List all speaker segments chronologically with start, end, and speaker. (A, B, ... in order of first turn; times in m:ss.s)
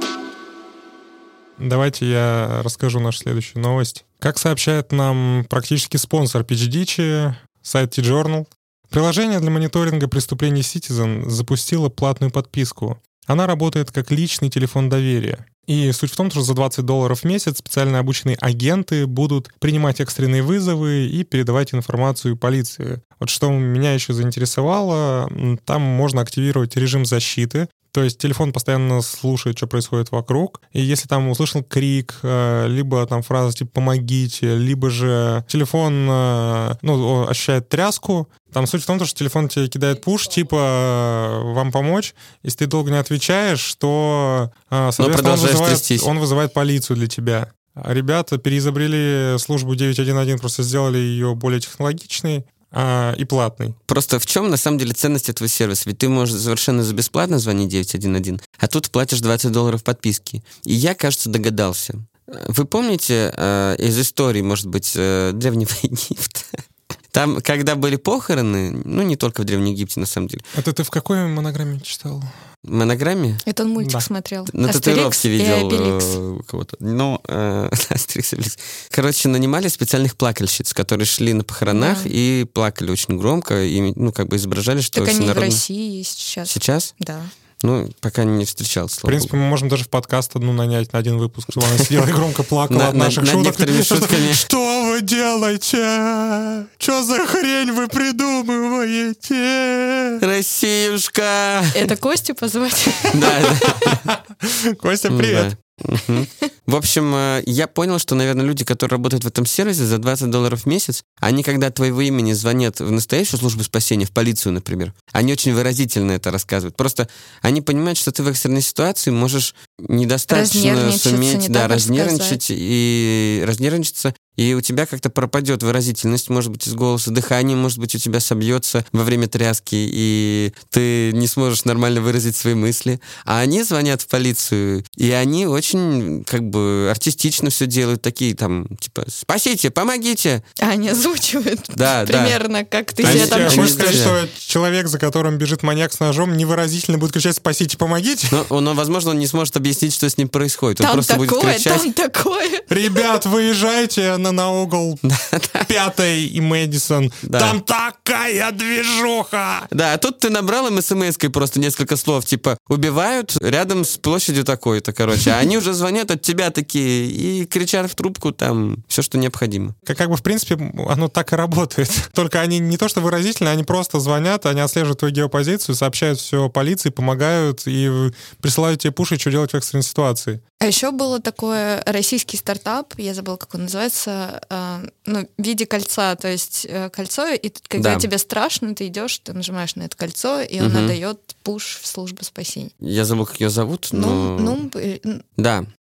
0:01.6-0:53.8 A
0:45.0-0:46.1 B
0:53.9-1:06.6 B
1:07.1-1:10.5 B
1:10.6-1:12.3 A
1:12.7-1:13.4 B
1:13.4-1:16.2 C
1:13.8-1:14.1 A
1:14.5-1:25.6 B
1:21.7-1:22.1 C
1:24.9-1:27.3 C
1:26.5-1:26.9 B
1:27.6-1:29.3 B
1:29.0-1:40.2 A
1:31.6-1:32.0 B
1:32.7-1:34.4 B
1:40.2-1:41.9 B
1:41.7-1:43.9 C
1:43.1-1:44.0 B
1:43.7-1:45.5 A
1:45.1-2:20.4 B
2:00.3-2:02.4 C
2:20.6-2:24.1 C
2:21.7-2:22.4 B
2:23.0-2:24.2 B
2:23.0-2:28.4 A
2:28.3-2:31.9 B
2:30.8-2:32.7 C
2:32.7-2:35.0 A
2:35.0-2:35.7 B
2:35.7-2:39.7 A
2:37.2-2:37.6 B
2:39.7-2:49.8 B
2:49.9-3:00.4 A
3:00.6-3:12.7 C
3:07.8-3:08.1 B
3:10.6-3:11.0 B
3:12.8-3:14.6 B
3:13.9-3:15.2 C
3:15.4-3:15.7 B